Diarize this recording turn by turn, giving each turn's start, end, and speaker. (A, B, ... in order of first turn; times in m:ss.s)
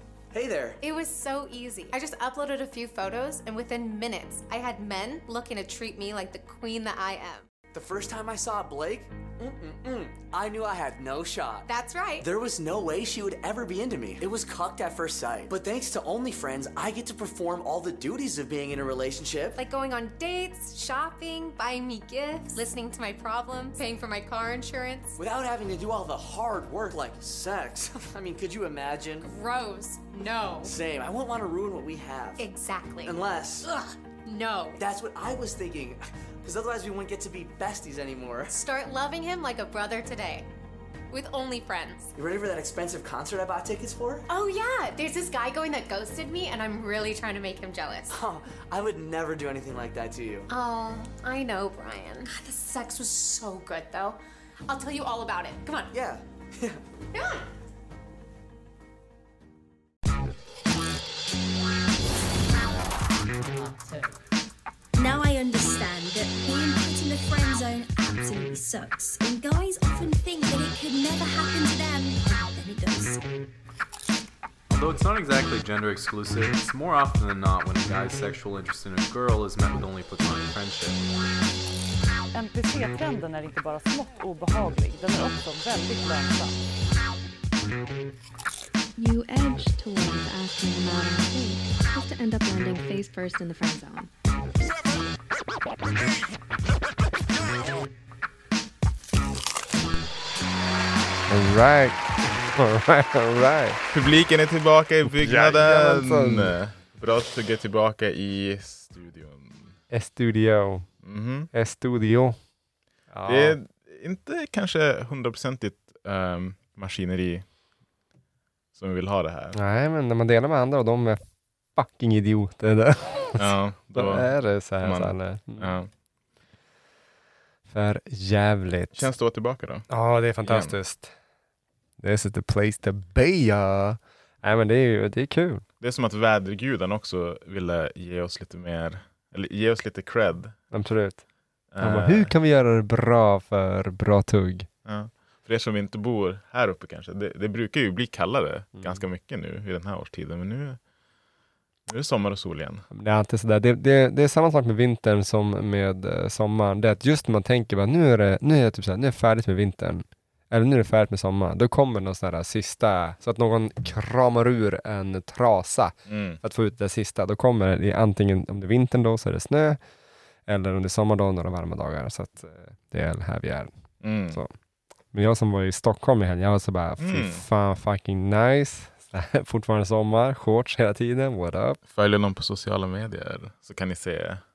0:00.3-0:00.8 A
0:00.8-0:07.5 B
0:07.7-0:11.7 A
0:11.6-0:12.3 B
0:12.2-0:19.6 A
0:19.6-0:25.2 B
0:25.2-0:29.3 A
0:29.2-0:30.7 B
0:30.6-0:32.4 A
0:32.4-0:34.8 B
0:33.0-0:33.7 A
0:34.8-0:38.6 A
0:38.5-0:40.5 B
0:41.1-0:42.1 B
0:42.2-0:44.2 A
0:44.3-0:48.1 B
0:48.1-0:50.5 A
0:50.5-0:55.9 B
0:55.9-0:56.8 A
0:57.1-0:57.4 B
1:04.9-1:13.2 C
1:14.7-1:21.0 D
1:22.3-1:26.6 E
1:29.0-1:34.1 F
1:41.3-1:43.8 G
1:43.9-1:49.8 H
1:45.1-1:46.5 G
1:49.9-1:50.9 G
1:51.0-1:51.5 H
1:51.5-1:52.4 G
1:53.1-1:53.6 G
1:53.2-1:57.5 H
1:58.7-1:59.6 H
1:59.5-2:01.2 G
2:01.7-2:05.7 G
2:03.4-2:05.9 H
2:07.7-2:09.1 G
2:08.9-2:09.9 H
2:09.9-2:11.1 G
2:10.4-2:10.7 H
2:12.0-2:15.6 G
2:15.8-2:20.6 H
2:20.7-2:21.2 G
2:21.7-2:22.3 H
2:21.8-2:24.7 G
2:24.8-2:30.8 H
2:28.7-2:29.0 G
2:31.9-2:32.8 H
2:32.9-2:49.8 G
2:46.1-2:46.4 H
2:50.4-2:53.7 G
2:54.0-2:54.4 H
2:55.1-3:01.8 G
2:57.0-2:57.4 H
3:01.9-3:04.4 H